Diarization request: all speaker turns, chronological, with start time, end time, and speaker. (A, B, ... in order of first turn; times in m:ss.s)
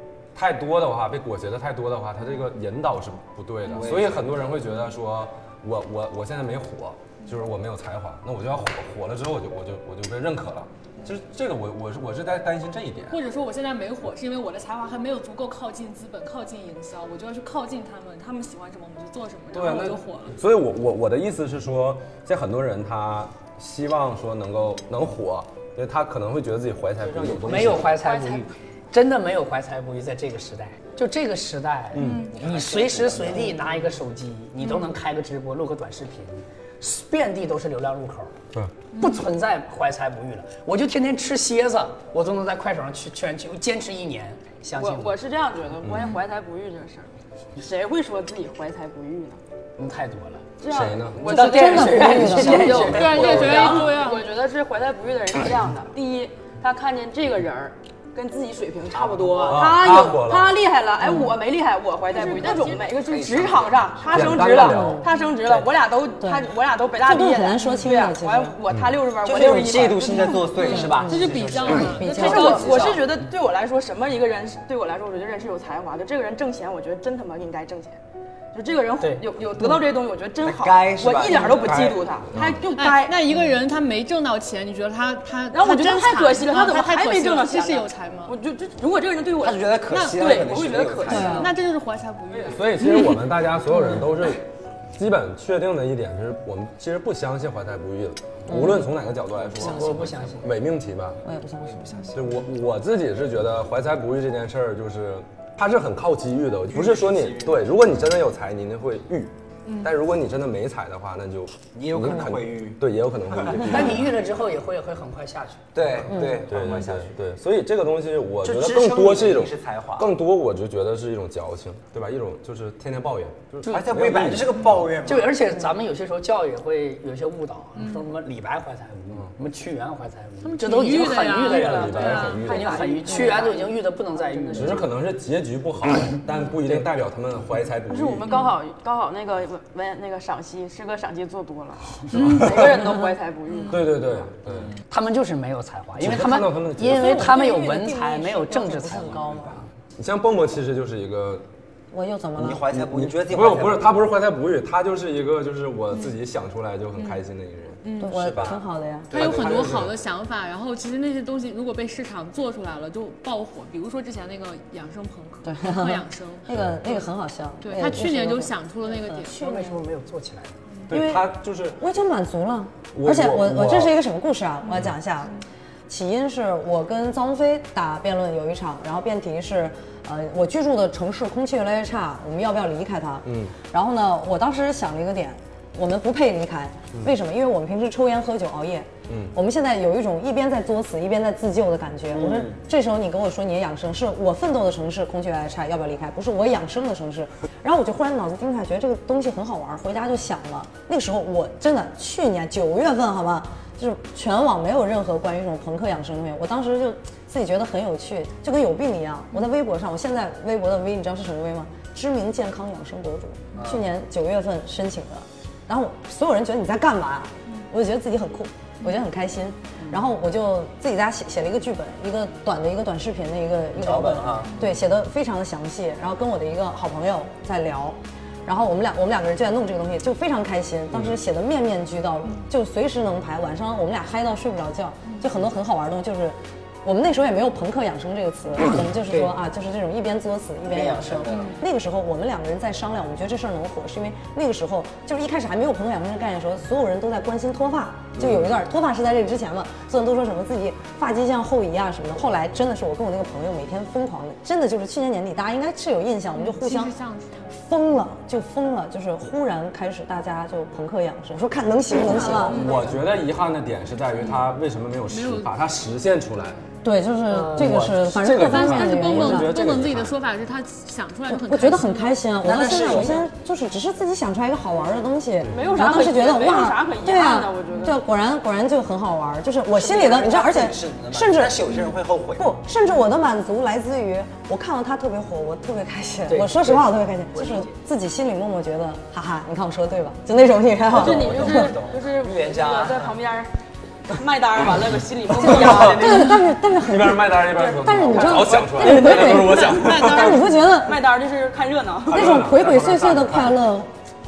0:00.3-0:13.2 A
0:03.7-0:04.4 B
0:13.1-0:20.4 C
0:19.5-0:27.9 A
0:27.0-0:27.9 B
0:27.4-0:38.3 D
0:31.9-0:32.3 A
0:32.0-0:32.4 C
0:32.3-0:33.6 B
0:34.6-0:34.9 C
0:38.9-0:39.2 C
0:38.9-0:45.1 D
0:44.8-0:49.4 E
0:45.8-0:46.1 A
0:49.8-0:50.4 D
0:50.6-1:18.0 E
0:50.7-0:51.3 A
0:51.2-0:53.7 D
0:51.3-0:52.9 F
0:52.4-0:53.9 B
0:52.8-0:54.2 C
0:58.9-0:59.9 B
0:59.4-1:00.6 A
1:01.0-1:01.3 F
1:02.1-1:02.8 C
1:02.2-1:04.7 B
1:04.1-1:05.0 A
1:04.6-1:05.1 F
1:06.2-1:06.5 F
1:07.0-1:08.6 F
1:09.2-1:13.1 B
1:10.0-1:13.0 C
1:10.1-1:11.3 F
1:11.9-1:12.9 F
1:18.5-1:23.2 E
1:20.4-1:22.0 B
1:21.6-1:22.6 A
1:22.7-1:28.3 C
1:25.5-1:31.4 E
1:29.4-1:31.5 B
1:29.9-1:30.4 C
1:31.1-1:31.5 F
1:31.1-1:32.8 C
1:32.3-1:34.4 A
1:34.9-1:41.2 A
1:38.5-1:38.9 F
1:39.6-1:40.5 D
1:41.2-1:42.2 F
1:42.1-1:54.1 A
1:46.7-1:47.7 B
1:49.6-1:49.9 C
1:51.7-1:52.8 B
1:53.3-1:53.7 B
1:53.6-1:55.8 D
1:55.7-1:57.1 B
1:56.0-2:04.7 A
1:56.1-1:56.5 F
1:58.4-2:00.1 B
2:03.6-2:05.5 B
2:05.0-2:14.9 D
2:07.8-2:08.1 C
2:10.4-2:13.5 C
2:11.4-2:12.8 A
2:12.6-2:13.6 E
2:14.5-2:18.3 A
2:17.9-2:24.0 E
2:22.1-2:22.6 C
2:22.1-2:22.7 A
2:23.5-2:23.8 C
2:23.7-2:24.7 A
2:24.9-2:29.5 D
2:26.0-2:27.3 A
2:26.9-2:29.6 F
2:30.0-2:31.4 A
2:31.9-2:32.6 F
2:32.4-2:34.1 B
2:32.7-2:38.6 A
2:37.0-2:37.2 C
2:37.8-2:38.3 C
2:38.0-2:39.2 F
2:38.1-2:39.8 B
2:39.1-2:40.0 A
2:39.1-2:47.1 C
2:45.4-2:49.5 F
2:46.5-2:46.8 A
2:47.6-2:49.7 C
2:49.1-2:50.6 D
2:50.9-2:51.8 A
2:50.9-4:16.9 F
2:52.9-2:54.0 A
3:03.2-3:03.5 A
3:09.1-3:09.4 A
3:12.1-3:12.6 B
3:33.6-3:33.8 B
3:43.8-3:44.5 B
3:44.5-3:44.8 C
4:00.7-4:01.6 B
4:01.3-4:01.6 C
4:16.3-4:17.7 C
4:17.6-4:22.6 F
4:22.4-4:23.0 C
4:22.4-4:26.6 A
4:24.2-4:24.5 C
4:25.1-4:25.5 C
4:26.8-4:29.6 F
4:27.3-4:27.9 D
4:27.4-4:30.1 A
4:28.2-4:32.2 C
4:31.3-4:41.7 F
4:32.4-4:33.3 B
4:35.5-4:38.0 E
4:37.7-4:38.0 C
4:39.8-4:42.6 B
4:42.4-4:51.7 F
4:46.3-4:47.8 D
4:50.9-4:53.2 B
4:50.9-4:53.5 E
4:54.1-4:56.4 E
4:55.4-4:56.1 B
4:55.4-5:01.0 F
4:55.5-4:56.1 A
4:56.7-5:00.5 A
4:57.5-4:59.8 E
4:59.4-5:00.7 C
5:00.7-5:02.3 E
5:02.1-5:03.6 A
5:02.1-5:03.9 F